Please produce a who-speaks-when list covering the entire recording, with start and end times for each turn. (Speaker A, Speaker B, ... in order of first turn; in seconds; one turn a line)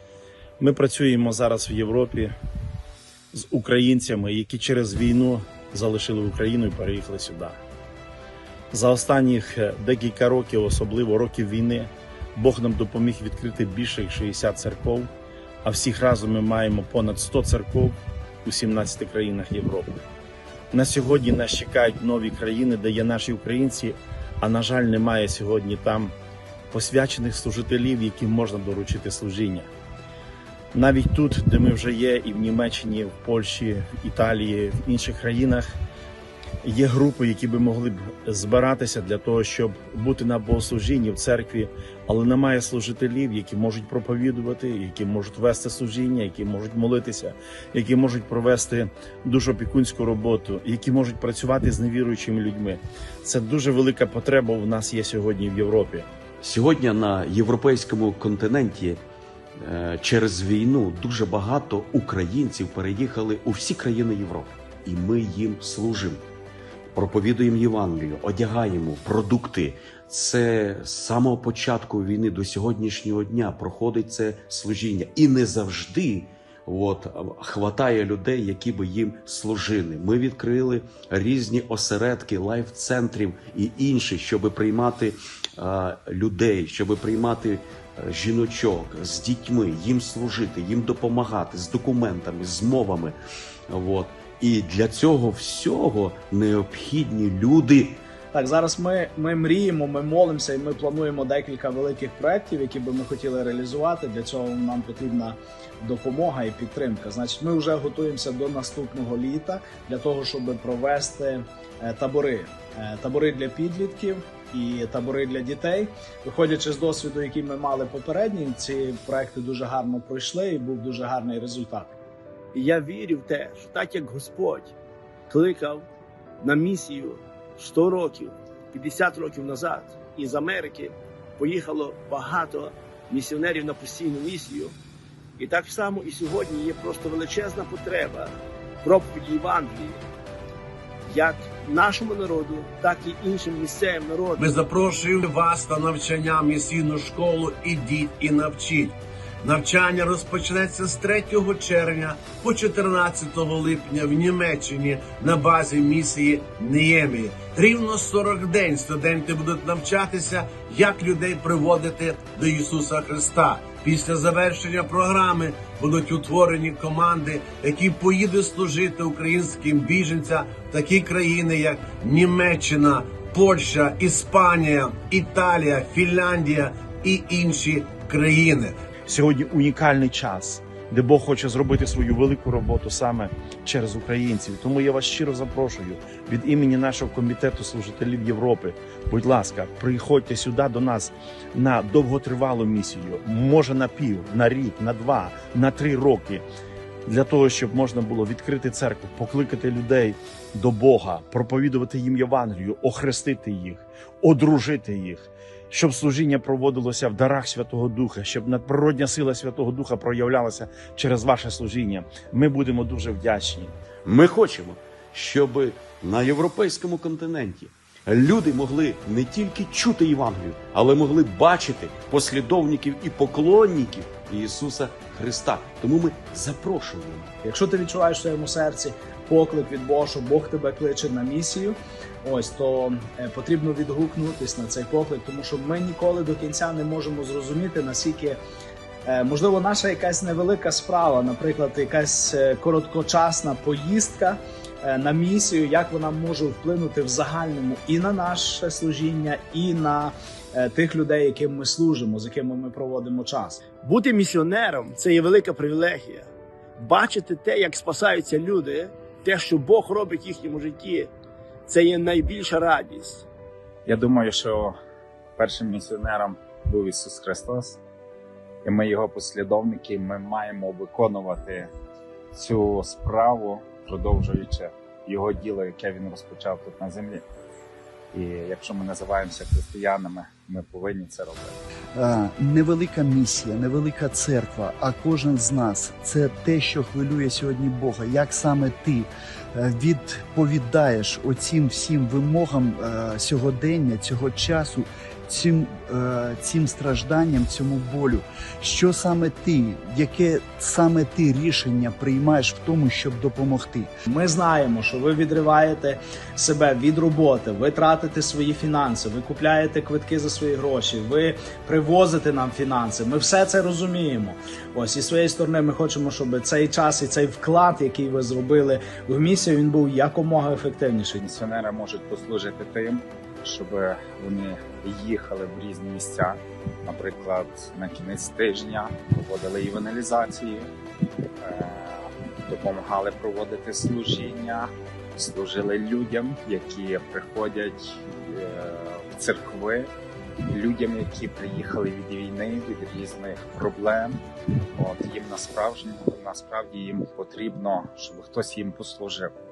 Speaker A: 0.6-2.3
Speaker A: 3.3-7.6
Speaker A: 8.7-15.1
Speaker A: 15.6-20.0
Speaker A: 20.7-26.1
Speaker A: 26.7-29.7
Speaker A: 30.7-35.8
Speaker A: 36.6-56.1
Speaker B: 56.4-59.0
Speaker B: 59.6-66.2
Speaker B: 67.0-93.2
Speaker B: 93.7-98.0
Speaker C: 98.3-122.0
Speaker D: 122.5-124.7
Speaker D: 125.3-125.9
Speaker D: 126.4-134.8
Speaker D: 135.4-140.0
Speaker D: 141.1-144.5
Speaker E: 144.4-178.8
Speaker A: 179.1-196.4
Speaker A: 197.1-213.7
Speaker B: 214.1-227.3
Speaker C: 227.4-238.4
Speaker C: 239.1-253.7
Speaker D: 253.8-261.1
Speaker D: 261.7-263.3
Speaker F: 263.9-264.8
Speaker F: 265.4-267.8
Speaker F: 268.6-271.7
Speaker F: 272.3-277.2
Speaker F: 278.1-281.6
Speaker G: 281.9-303.9
Speaker C: 304.1-321.2
Speaker F: 321.2-330.7
Speaker F: 331.4-339.9
Speaker F: 340.5-344.1
Speaker F: 344.8-349.3